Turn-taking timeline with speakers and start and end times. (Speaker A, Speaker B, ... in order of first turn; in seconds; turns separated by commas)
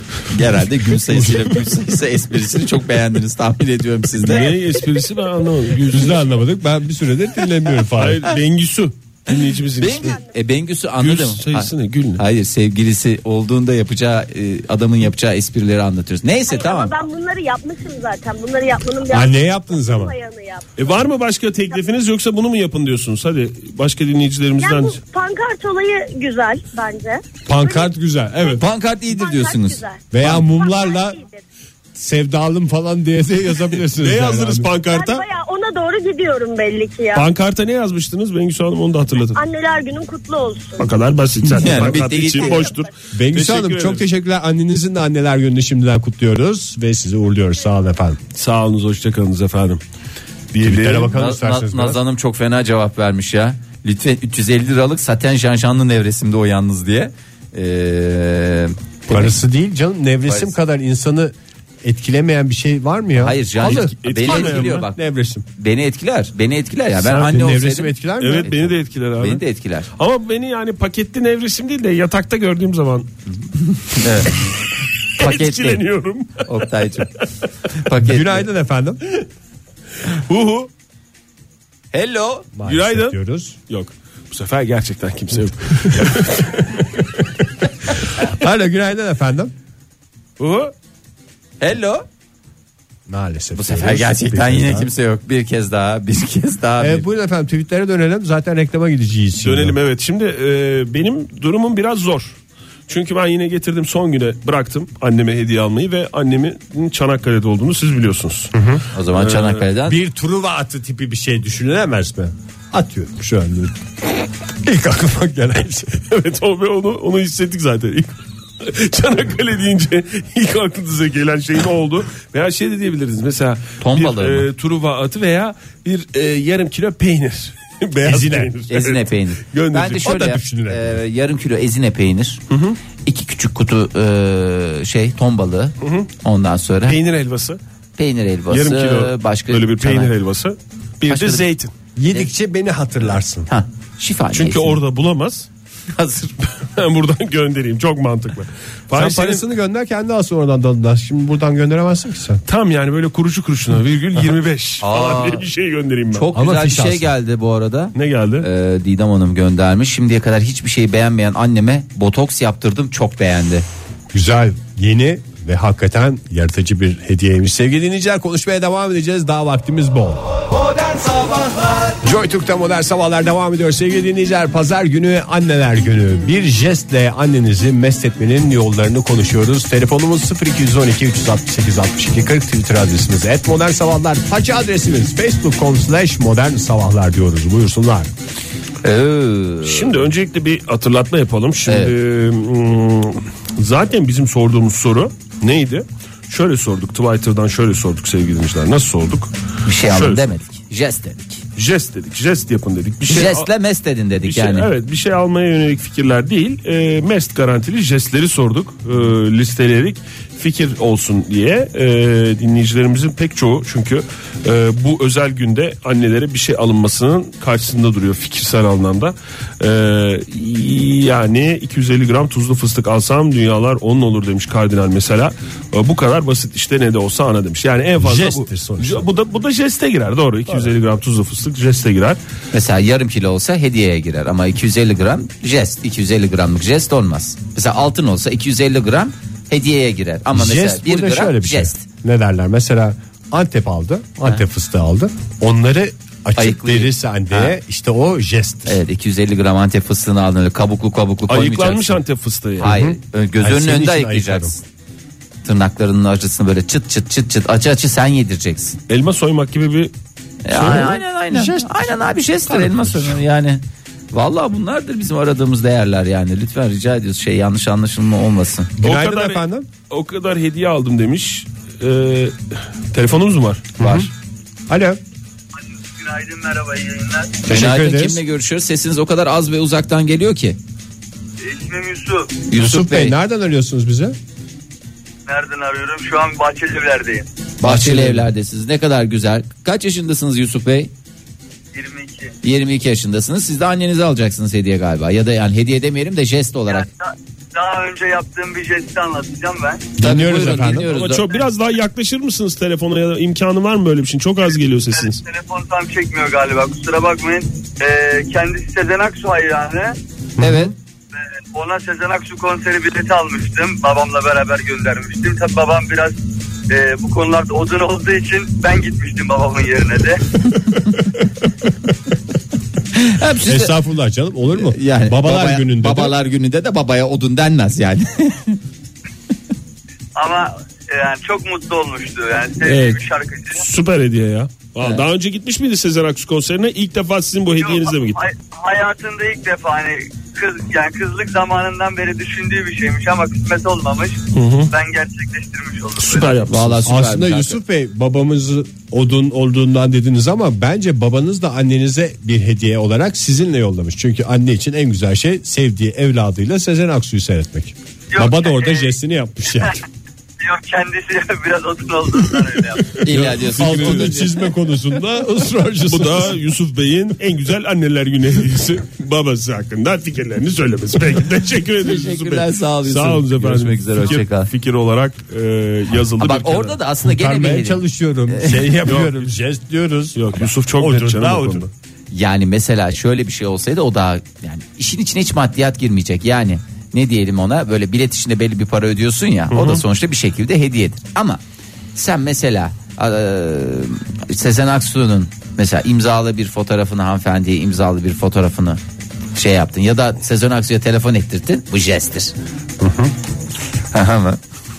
Speaker A: 0.3-4.6, Speaker B: 1.1-1.6, Speaker C: 4.2-6.3, Speaker B: 5.8-8.2, Speaker C: 8.0-10.2, Speaker A: 9.8-16.9, Speaker D: 9.9-10.3, Speaker C: 11.0-12.2, Speaker D: 16.5-20.7, Speaker B: 19.1-20.1, Speaker C: 20.8-25.0, Speaker D: 24.6-27.9, Speaker B: 27.5-28.6, Speaker A: 28.5-30.4, Speaker D: 29.1-31.4, Speaker B: 30.1-31.2, Speaker B: 31.9-34.7, Speaker C: 34.0-35.2, Speaker D: 34.9-37.3, Speaker C: 37.1-39.4, Speaker D: 39.4-40.9, Speaker C: 40.8-44.0, Speaker A: 41.6-42.7, Speaker D: 42.4-42.9, Speaker B: 43.1-48.2, Speaker C: 48.3-49.8, Speaker C: 50.5-51.1, Speaker B: 50.6-52.0, Speaker A: 51.1-59.4, Speaker B: 59.1-65.5, Speaker A: 60.3-60.5, Speaker A: 63.2-65.0, Speaker C: 63.6-64.9, Speaker A: 65.6-68.6, Speaker C: 67.0-67.4, Speaker B: 67.3-68.7, Speaker C: 68.2-69.4, Speaker A: 69.2-69.9, Speaker C: 70.0-73.1, Speaker A: 73.3-74.5, Speaker A: 75.2-75.8, Speaker C: 75.2-76.5, Speaker A: 76.4-77.1, Speaker A: 77.8-78.5, Speaker B: 78.0-79.0, Speaker C: 80.0-80.7, Speaker A: 81.9-82.5, Speaker B: 82.5-83.6, Speaker C: 82.7-83.2, Speaker C: 83.7-87.1, Speaker B: 88.2-89.5, Speaker C: 90.4-90.7, Speaker A: 91.6-92.1, Speaker B: 93.1-94.9, Speaker A: 93.5-97.0, Speaker B: 96.8-99.8, Speaker C: 99.4-108.6, Speaker B: 108.5-108.8, Speaker A: 108.9-110.0, Speaker C: 109.1-109.6, Speaker B: 109.8-113.8, Speaker B: 114.6-116.0, Speaker C: 116.1-130.1, Speaker A: 123.8-124.5, Speaker B: 128.0-128.5, Speaker A: 128.7-132.4, Speaker B: 129.8-131.0, Speaker C: 132.5-132.8, Speaker A: 133.0-137.0, Speaker C: 135.8-136.1, Speaker C: 136.9-137.6, Speaker A: 138.0-140.1, Speaker C: 138.5-141.7, Speaker A: 141.1-141.4, Speaker B: 142.0-143.5, Speaker A: 143.5-144.8, Speaker C: 144.3-145.5, Speaker A: 145.9-146.4, Speaker C: 146.7-149.4, Speaker B: 148.9-152.4, Speaker C: 152.5-156.3, Speaker A: 154.8-155.5, Speaker A: 156.1-163.7, Speaker B: 156.3-157.1, Speaker C: 157.9-158.5, Speaker B: 164.1-170.2, Speaker B: 172.0-188.1, Speaker A: 188.8-190.0, Speaker C: 189.6-200.3, Speaker A: 191.7-191.9, Speaker A: 199.7-201.4, Speaker C: 201.6-203.5, Speaker A: 203.1-204.7, Speaker C: 204.2-232.2, Speaker B: 228.0-229.1, Speaker A: 232.5-241.8, Speaker B: 240.3-248.8, Speaker A: 246.4-247.6, Speaker A: 248.7-252.0, Speaker C: 251.3-252.7, Speaker B: 252.6-254.6, Speaker A: 252.6-254.6, Speaker A: 255.4-258.8, Speaker C: 258.9-259.9, Speaker A: 260.4-268.7, Speaker C: 260.5-261.0, Speaker B: 260.8-261.7, Speaker B: 262.5-263.2, Speaker B: 268.8-269.7, Speaker C: 268.8-273.8, Speaker B: 273.8-274.1, Speaker A: 273.8-274.1, Speaker B: 274.7-275.0, Speaker E: 275.6-277.4, Speaker B: 277.4-278.2, Speaker A: 277.5-280.6, Speaker E: 281.4-282.4, Speaker A: 282.5-283.2, Speaker B: 282.6-284.2, Speaker E: 285.3-287.3, Speaker A: 287.6-290.9, Speaker B: 287.6-288.3, Speaker E: 291.7-292.4, Speaker A: 292.4-296.9, Speaker E: 296.7-299.9, Speaker B: 300.0-300.9, Speaker A: 300.0-301.3, Speaker C: 300.9-305.2, Speaker E: 304.9-310.0, Speaker B: 310.4-310.7, Speaker A: 310.4-310.7, Speaker E: 311.5-316.2, Speaker E: 316.7-320.2, Speaker A: 322.9-323.7, Speaker B: 323.4-326.2, Speaker A: 324.5-328.6, Speaker E: 330.2-333.6, Speaker C: 332.6-333.0, Speaker C: 333.5-338.2, Speaker E: 337.6-346.5, Speaker C: 344.3-344.7, Speaker C: 346.0-346.9, Speaker A: 346.5-347.6, Speaker B: 346.9-359.8, Speaker E: 358.1-358.9, Speaker E: 360.4-363.0, Speaker A: 363.0-364.4, Speaker C: 363.1-364.1, Speaker B: 363.6-366.4, Speaker C: 365.9-376.8, Speaker A: 371.8-374.5, Speaker A: 376.2-378.8, Speaker B: 377.0-381.7, Speaker C: 378.9-379.3, Speaker C: 380.1-381.7, Speaker A: 382.1-391.4, Speaker C: 389.5-389.8, Speaker A: 391.9-398.8, Speaker A: 399.4-402.3, Speaker B: 402.8-403.1, Speaker A: 403.9-404.4